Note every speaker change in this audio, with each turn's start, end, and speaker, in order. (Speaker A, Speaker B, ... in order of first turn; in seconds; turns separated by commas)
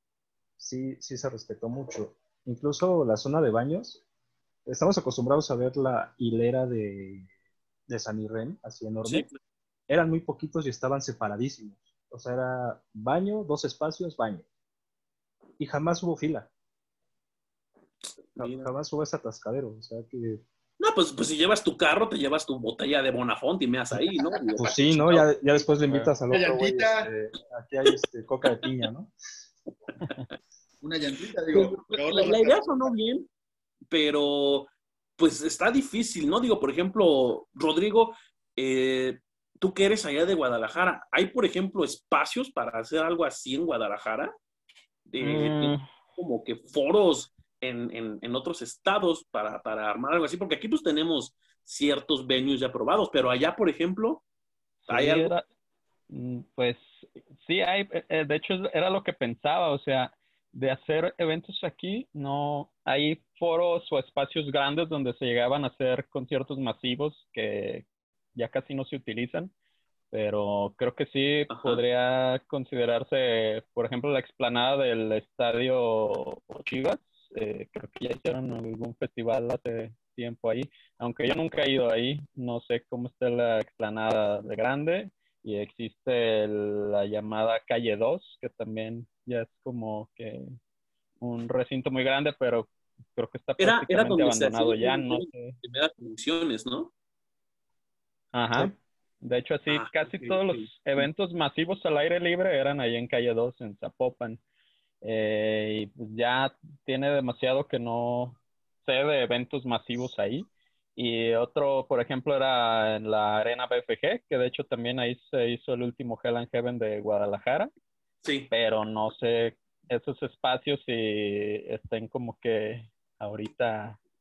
Speaker A: 0.6-4.0, Speaker A: 4.7-7.3, Speaker A: 7.9-9.2, Speaker B: 9.0-9.3, Speaker A: 9.9-14.4, Speaker A: 15.6-16.5, Speaker B: 18.4-18.7, Speaker A: 18.4-20.4, Speaker B: 20.8-26.1, Speaker A: 24.6-29.1, Speaker C: 26.3-27.1, Speaker C: 30.8-32.9, Speaker B: 31.5-33.3, Speaker B: 33.9-44.3, Speaker B: 45.1-54.2, Speaker D: 45.2-45.9, Speaker B: 54.9-55.3, Speaker D: 54.9-55.5, Speaker D: 56.1-56.9, Speaker D: 57.4-69.5, Speaker D: 70.1-90.5, Speaker B: 71.5-71.8, Speaker D: 91.2-95.6, Speaker B: 93.6-96.9, Speaker D: 98.3-104.4, Speaker B: 99.7-101.1, Speaker D: 105.0-117.7, Speaker B: 118.2-118.5, Speaker D: 118.5-124.0